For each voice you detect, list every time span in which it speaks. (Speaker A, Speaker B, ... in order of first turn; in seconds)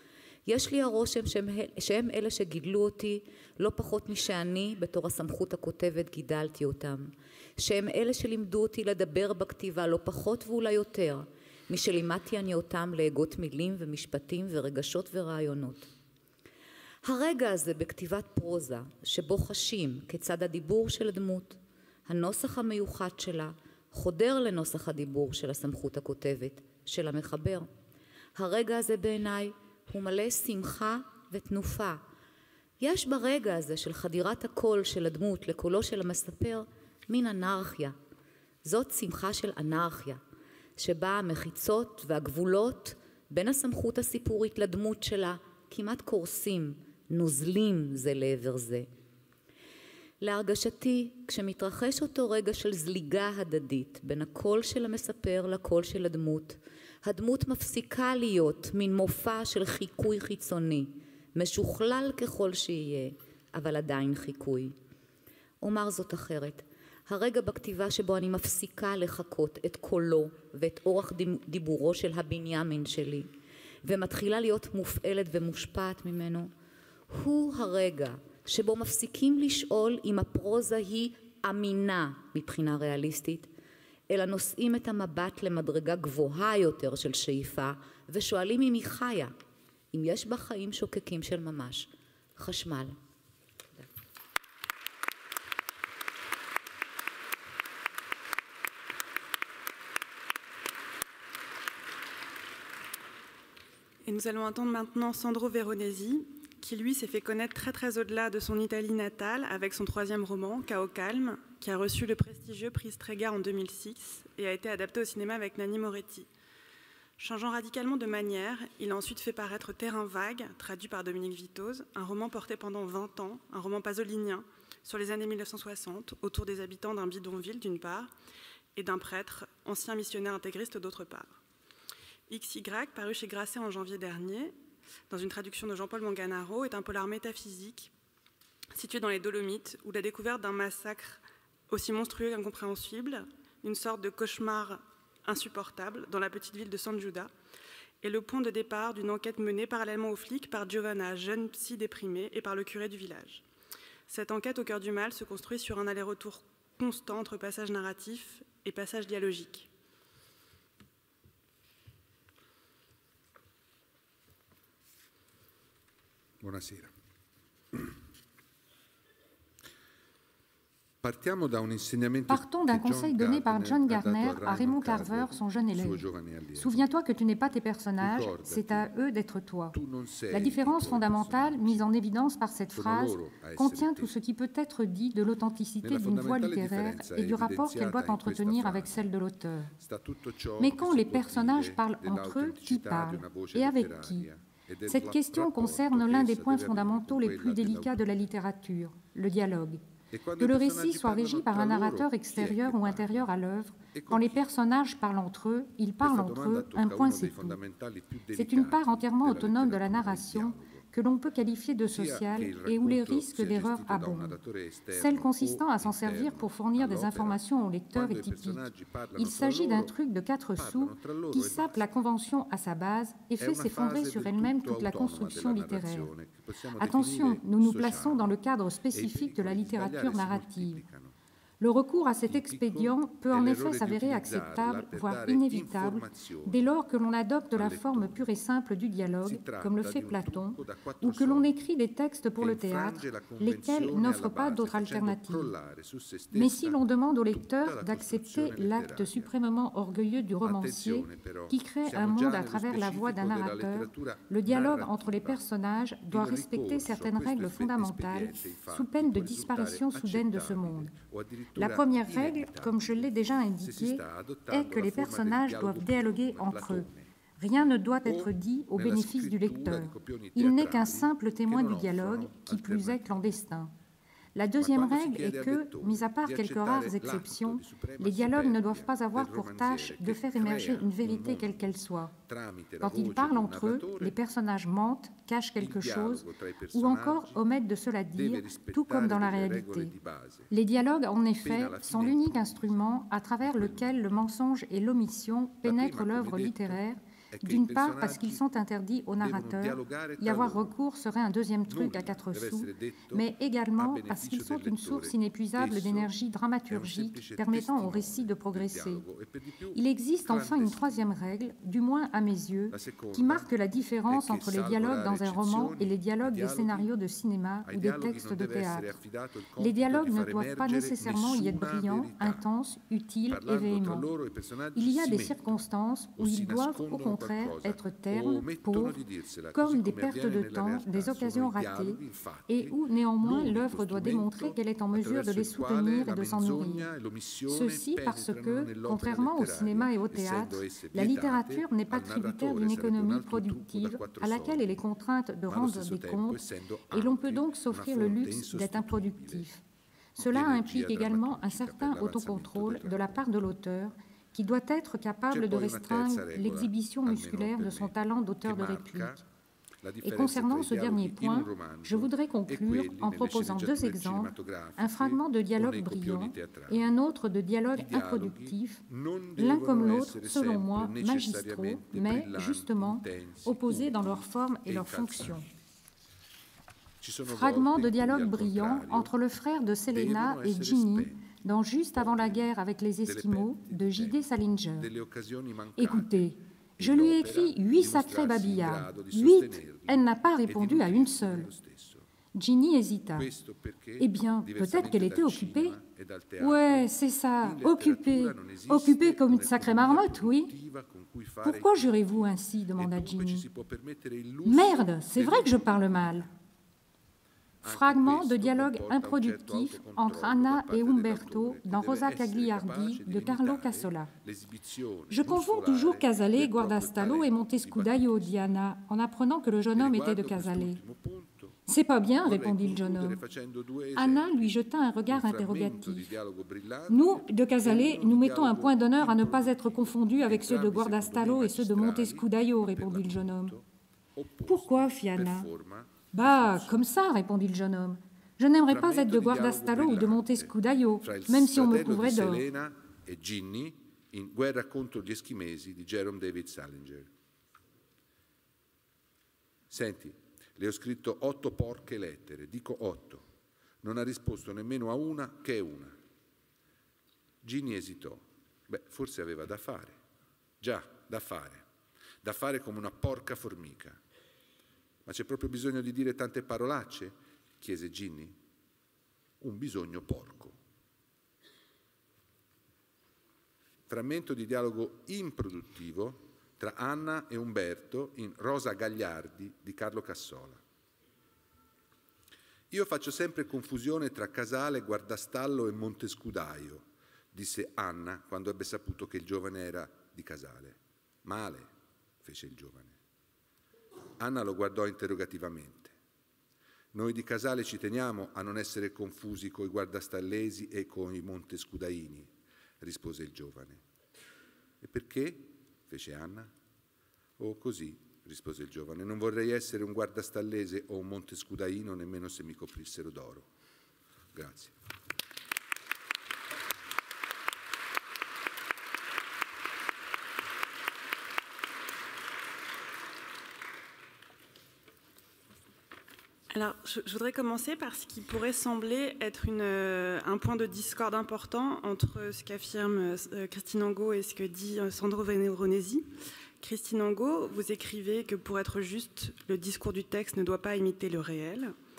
Speaker A: 0.5-15.9, 17.0-27.7, 28.4-32.0, 32.8-38.0, 38.6-40.2, 40.8-48.9, 50.2-64.8, 65.6-73.3, 73.8-76.5, 77.1-83.5, 84.1-89.3, 89.9-93.0
Speaker B: 104.0-116.3, 117.2-128.1, 128.7-131.4, 132.3-134.5, 135.1-137.9, 138.7-147.3, 148.0-153.4, 154.1-159.7, 526.5-536.1, 536.6-541.7
Speaker C: 166.4-166.9, 171.0-176.9, 178.0-178.9, 179.7-181.9, 182.7-184.1, 185.8-189.0, 189.8-198.0, 200.1-203.3, 203.9-204.5, 206.0-210.8, 211.8-220.0, 220.5-221.9, 223.4-228.4, 228.9-231.1, 232.2-236.6, 237.5-238.3, 239.2-241.5, 242.4-249.3, 250.4-255.4, 256.1-267.1, 268.0-273.4, 274.6-281.7, 282.3-284.2, 285.6-287.4, 288.1-290.5, 291.4-294.0, 295.6-298.4, 299.2-300.7, 301.7-306.2, 306.7-311.0, 312.7-313.5, 314.1-316.9, 317.6-322.4, 323.3-325.6, 326.1-344.7, 345.5-349.5, 350.2-353.2, 355.3-359.2, 359.8-366.9, 367.7-375.4, 377.0-379.2, 379.9-381.2, 381.9-382.5, 383.0-392.1, 393.1-406.3, 407.6-418.5, 419.7-421.6, 422.2-433.6, 434.1-436.9, 438.7-447.1, 449.7-453.2, 453.8-455.9, 457.4-460.0, 460.6-461.6, 462.2-464.0, 465.1-468.4, 469.4-470.6, 473.9-480.6, 482.7-491.7, 492.2-492.9, 494.2-495.9, 496.9-503.8, 504.8-506.5, 507.4-513.5, 514.3-514.7
Speaker D: 172.3-179.8, 180.3-189.7, 190.6-194.3, 194.8-199.8, 200.4-207.6, 208.3-214.3, 214.9-226.1, 226.8-230.8, 231.6-245.5, 246.3-260.9, 261.5-273.7, 274.3-282.1, 282.8-289.9, 290.5-309.0, 309.7-318.9, 319.6-324.1, 324.7-329.0, 329.5-336.9, 337.5-349.6, 350.1-359.2, 360.0-368.8, 369.4-375.4, 377.3-384.9, 385.8-391.5, 392.3-393.3, 394.0-395.8, 396.4-400.5, 401.4-403.5, 404.4-406.3, 407.6-414.1, 415.1-420.8, 421.7-423.2, 423.9-426.1, 426.9-433.6, 434.4-435.5, 436.1-442.4